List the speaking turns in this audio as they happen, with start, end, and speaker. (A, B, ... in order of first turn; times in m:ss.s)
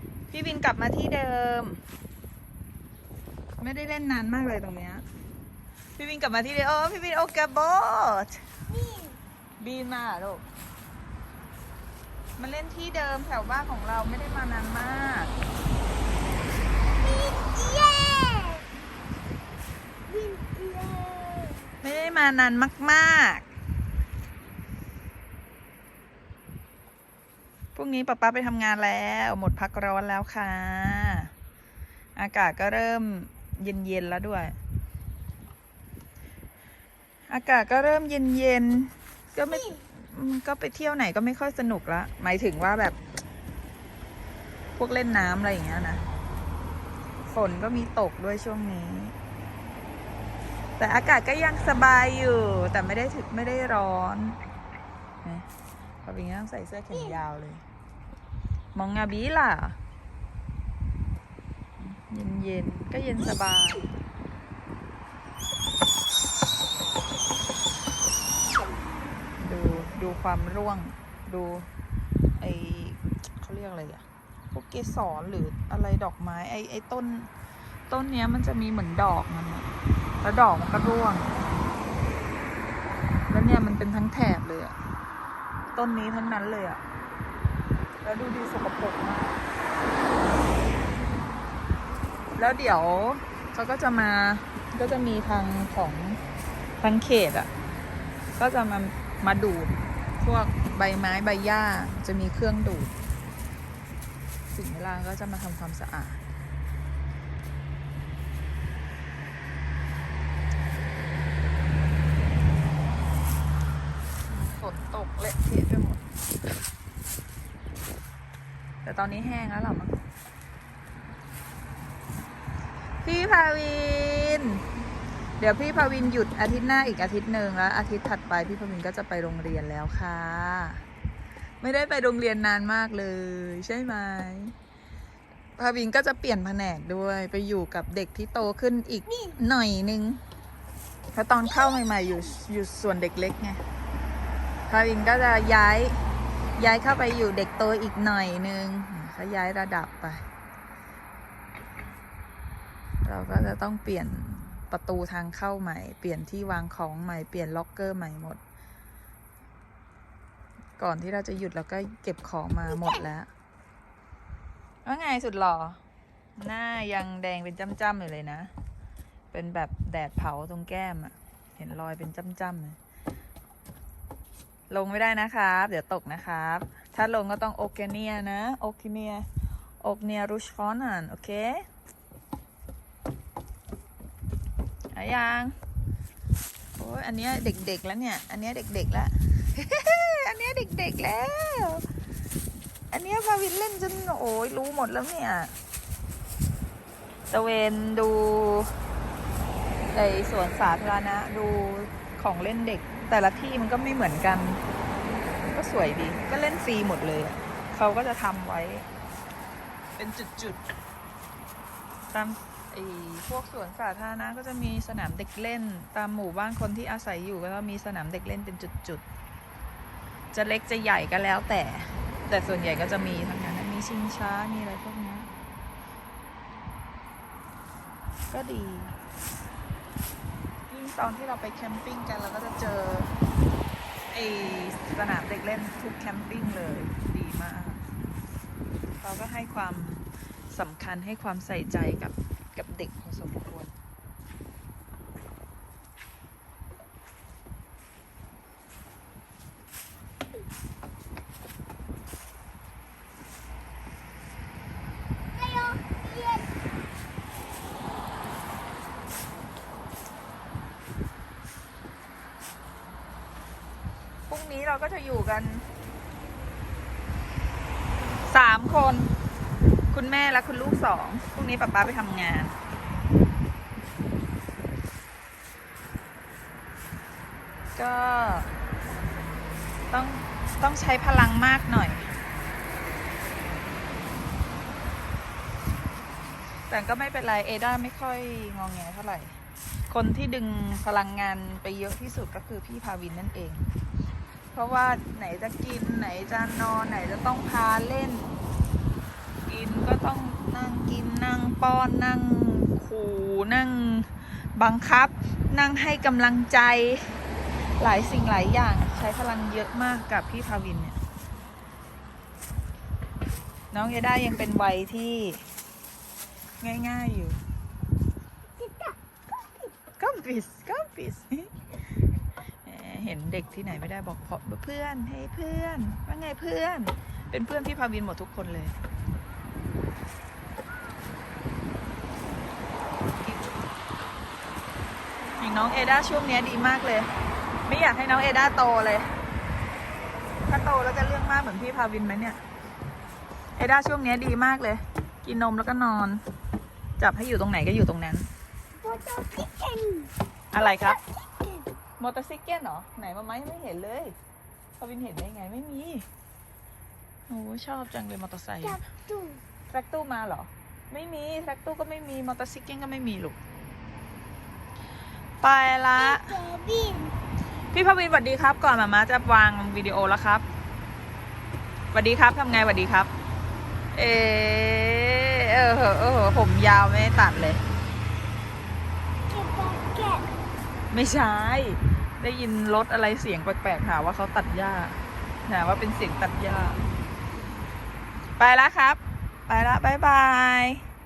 0:00.3-0:01.8 A
0:03.6-0:05.0 A
0:06.0-0:08.4 A
0:08.7-0:09.2 B
0:09.6-0:10.5 A
0:12.4-0:15.4 A
0:17.0-0:18.7 B
0:20.1-0:21.7 B
0:21.8-0:23.5 A
0:27.8-0:31.3 A
0:32.2-0:34.6 A
0:37.3-0:43.0 A
0:44.8-0:46.0 A
0:47.3-0:49.2 A
0:50.8-0:54.4 A
0:56.0-0:57.6 A
0:58.8-0:59.8 A
1:01.8-1:03.9 A
1:09.4-1:11.7 A
1:12.4-1:17.3 A
1:17.9-1:19.7 A
1:20.2-1:21.4 A
1:23.3-1:24.8 A
1:25.8-1:26.8 A
1:28.0-1:29.4 A
1:32.4-1:36.2 A
1:36.8-1:37.5 A
1:38.4-1:42.9 A
1:44.5-1:46.2 A
1:54.3-1:56.1 A
1:58.8-2:00.0 A
2:03.0-2:04.6 A
2:05.4-2:10.8 A
2:11.6-2:14.5 A
2:15.6-2:20.2 A
2:21.1-2:23.6 A
2:24.7-2:26.0 A
2:26.6-2:30.2 A
2:33.0-2:38.4 A
2:40.8-2:43.3 A
2:44.8-2:45.8 A
2:46.4-2:48.5 A
2:49.3-2:52.8 A
2:54.7-2:59.3 A
2:59.8-3:01.7 A
3:04.9-3:05.5 A
3:06.8-3:11.8 A
3:12.9-3:15.5 A
3:17.3-3:18.7 A
3:19.9-3:24.6 A
3:25.4-3:28.9 A
3:30.0-3:30.6 A
3:32.1-3:39.0 A
3:40.3-3:45.3 A
3:48.3-3:49.0 A
3:50.7-3:53.1 A
3:54.1-3:57.8 A
3:59.0-4:03.8 A
4:15.4-4:16.5 B
4:24.3-4:25.6 A
4:28.3-4:29.1 A
4:29.9-4:32.6 A
4:37.8-4:38.5 A
4:39.9-4:42.1 A
4:46.7-4:49.4 A
4:49.9-4:53.7 A
4:54.5-4:58.4 A
4:59.5-5:07.2 A
5:07.8-5:11.0 A
5:13.7-5:15.4 A
5:16.6-5:17.4 A
5:18.6-5:19.0 B
5:20.0-5:21.5 A
5:22.6-5:28.8 A
5:33.2-5:33.6 A
5:35.4-5:37.1 A
5:37.7-5:39.1 A
5:40.5-5:42.4 A
5:43.6-5:46.2 A
5:47.0-5:48.3 A
5:48.8-5:50.1 B
5:50.5-5:51.0 A
5:50.9-5:51.6 B
5:52.0-5:54.2 A
5:54.8-5:56.1 A
5:57.3-5:58.8 A
5:58.9-5:59.4 B
5:59.7-6:03.4 A
6:05.4-6:06.4 A
6:06.1-6:07.2 B
6:07.7-6:10.4 A
6:11.9-6:13.1 A
6:13.9-6:17.6 A
6:19.3-6:20.3 B
6:20.9-6:26.8 A
6:28.4-6:30.8 A